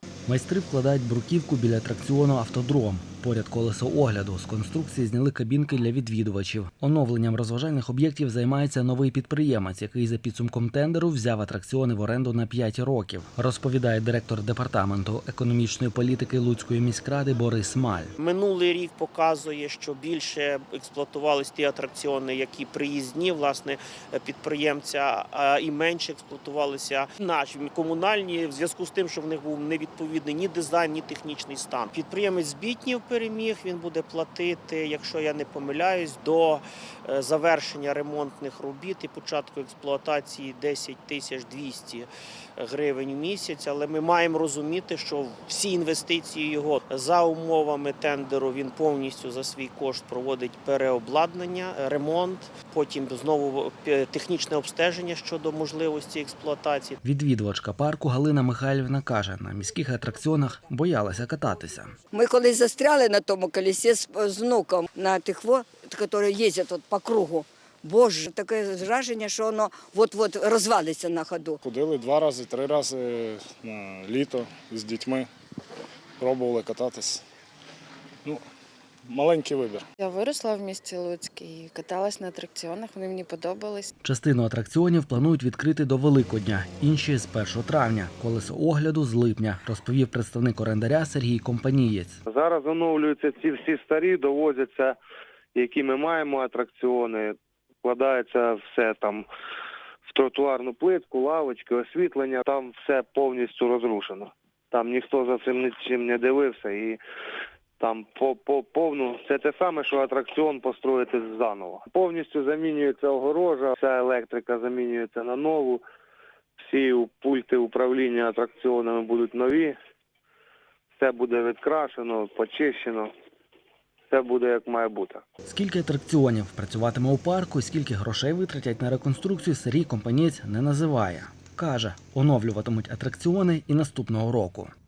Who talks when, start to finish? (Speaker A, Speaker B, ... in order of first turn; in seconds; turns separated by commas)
Speaker A: 0.3-18.1, Speaker B: 18.2-57.0, Speaker A: 57.0-62.0, Speaker C: 62.1-71.6, Speaker D: 71.6-75.3, Speaker D: 76.2-77.2, Speaker D: 79.1-79.8, Speaker E: 80.0-83.9, Speaker A: 84.0-92.2, Speaker F: 92.3-95.0, Speaker F: 95.5-99.3, Speaker F: 100.1-107.0, Speaker F: 107.8-115.8, Speaker F: 116.6-119.8, Speaker F: 121.0-123.1, Speaker F: 124.1-125.2, Speaker A: 125.5-134.7